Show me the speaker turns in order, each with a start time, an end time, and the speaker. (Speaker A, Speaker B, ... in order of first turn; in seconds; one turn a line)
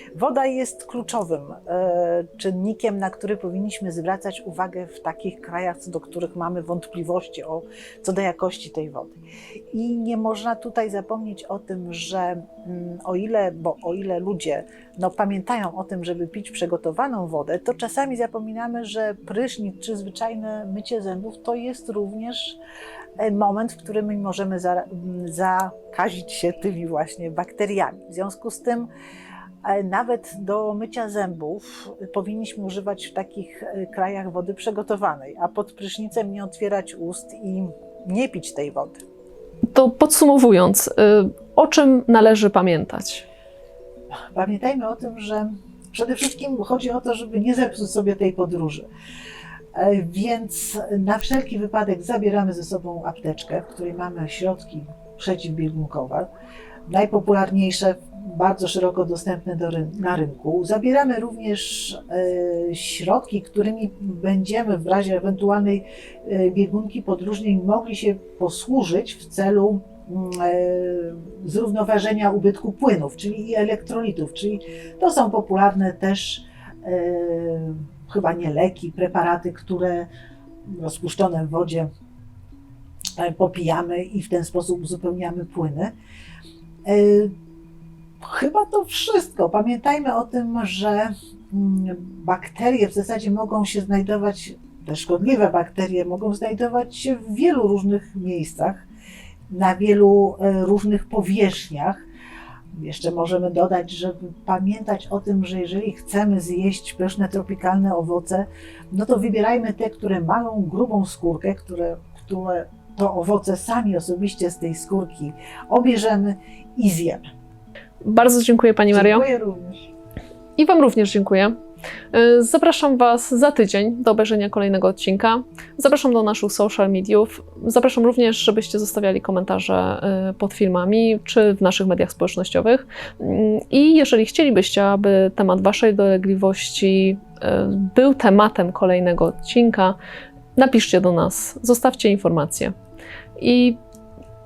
Speaker A: 0.1-9.2
Speaker A: 9.7-22.6
Speaker A: 23.2-28.9
Speaker A: 29.6-39.0
Speaker B: 39.7-43.3
Speaker A: 44.3-48.9
Speaker A: 49.8-56.3
Speaker A: 56.9-80.1
Speaker A: 80.7-81.9
Speaker A: 83.2-85.9
Speaker A: 86.9-87.3
Speaker A: 88.2-98.8
Speaker A: 99.5-102.0
Speaker A: 102.7-117.2
Speaker B: 118.0-119.3
Speaker A: 118.9-119.9
Speaker B: 120.6-121.5
Speaker B: 122.1-140.0
Speaker B: 140.6-142.8
Speaker B: 143.4-143.8